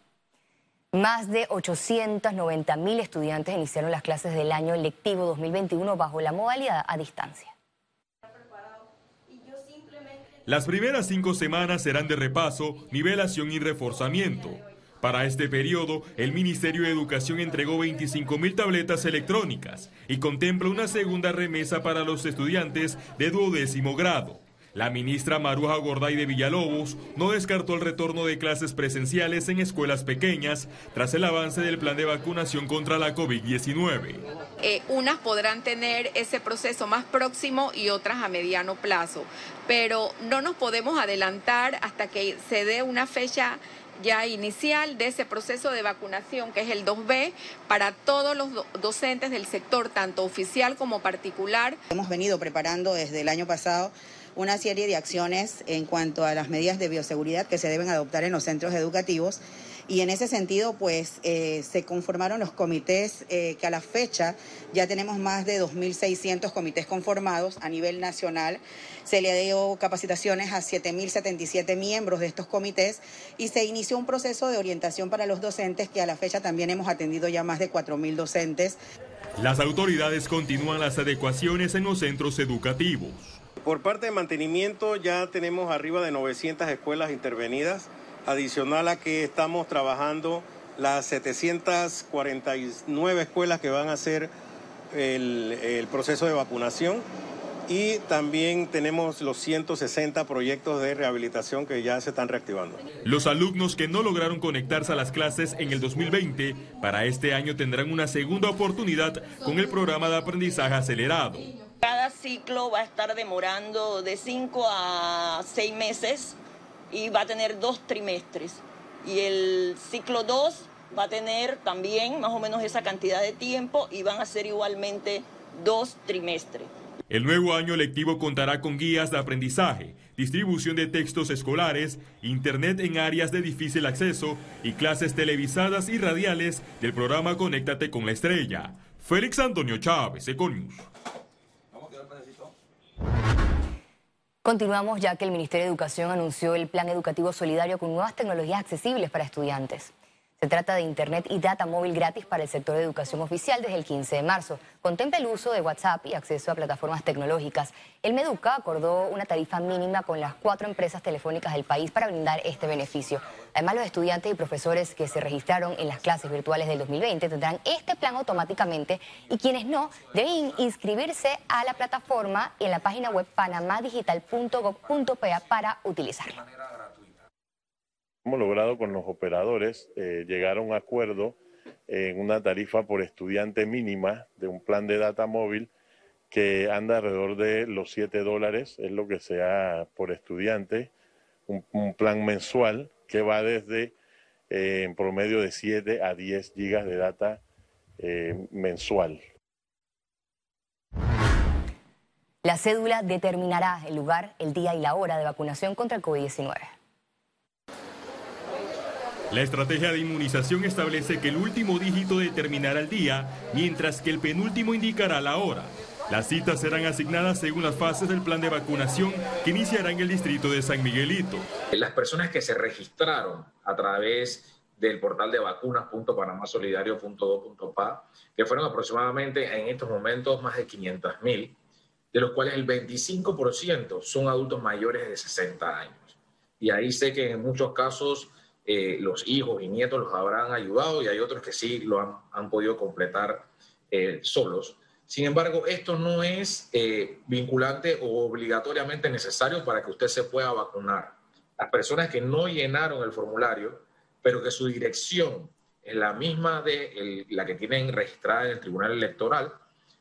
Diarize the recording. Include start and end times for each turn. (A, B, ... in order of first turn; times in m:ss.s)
0:00.9-0:07.5 A
0:10.4-0:34.2 B
0:34.6-0:51.8 C
0:51.9-1:18.8 D
1:19.4-1:23.4 B
1:23.6-1:34.3 E
1:34.9-1:37.0 E
1:37.7-1:42.8 E
1:43.1-1:51.5 B
1:51.8-1:56.4 F
1:56.9-2:06.7 F
2:07.1-2:20.8 B
2:24.4-2:56.4 A
2:58.2-3:05.7 G
3:06.3-3:10.9 G
3:11.5-3:13.9 G
3:14.5-3:17.4 G
3:18.0-3:19.2 G
3:22.4-3:26.7 A
3:29.3-3:41.5 B
3:41.7-3:51.5 H
3:52.1-4:19.5 H